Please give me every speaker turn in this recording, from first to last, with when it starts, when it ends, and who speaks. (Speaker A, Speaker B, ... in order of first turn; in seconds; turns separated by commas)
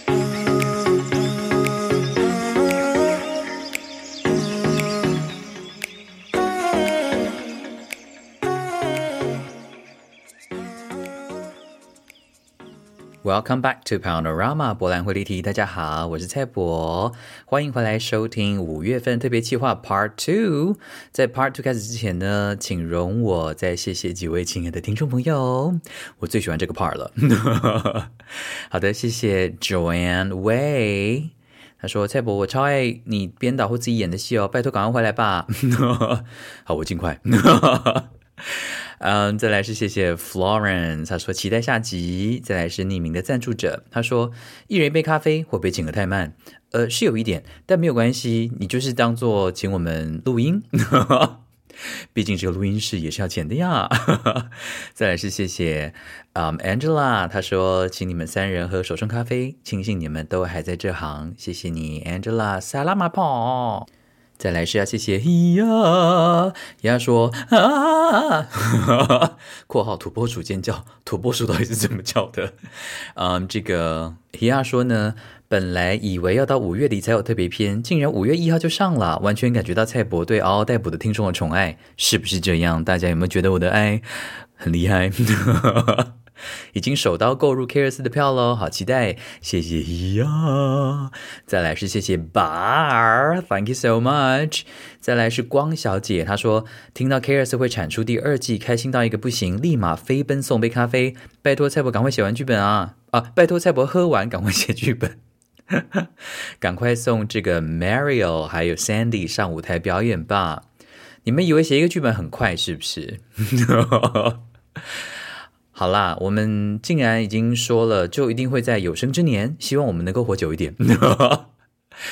Speaker A: 13.2-28.1, Speaker A: 28.7-51.4, Speaker A: 52.1-63.9, Speaker A: 64.4-72.5, Speaker A: 73.2-86.1, Speaker A: 86.7-106.1, Speaker A: 106.6-110.7, Speaker A: 111.2-114.4, Speaker A: 115.7-121.5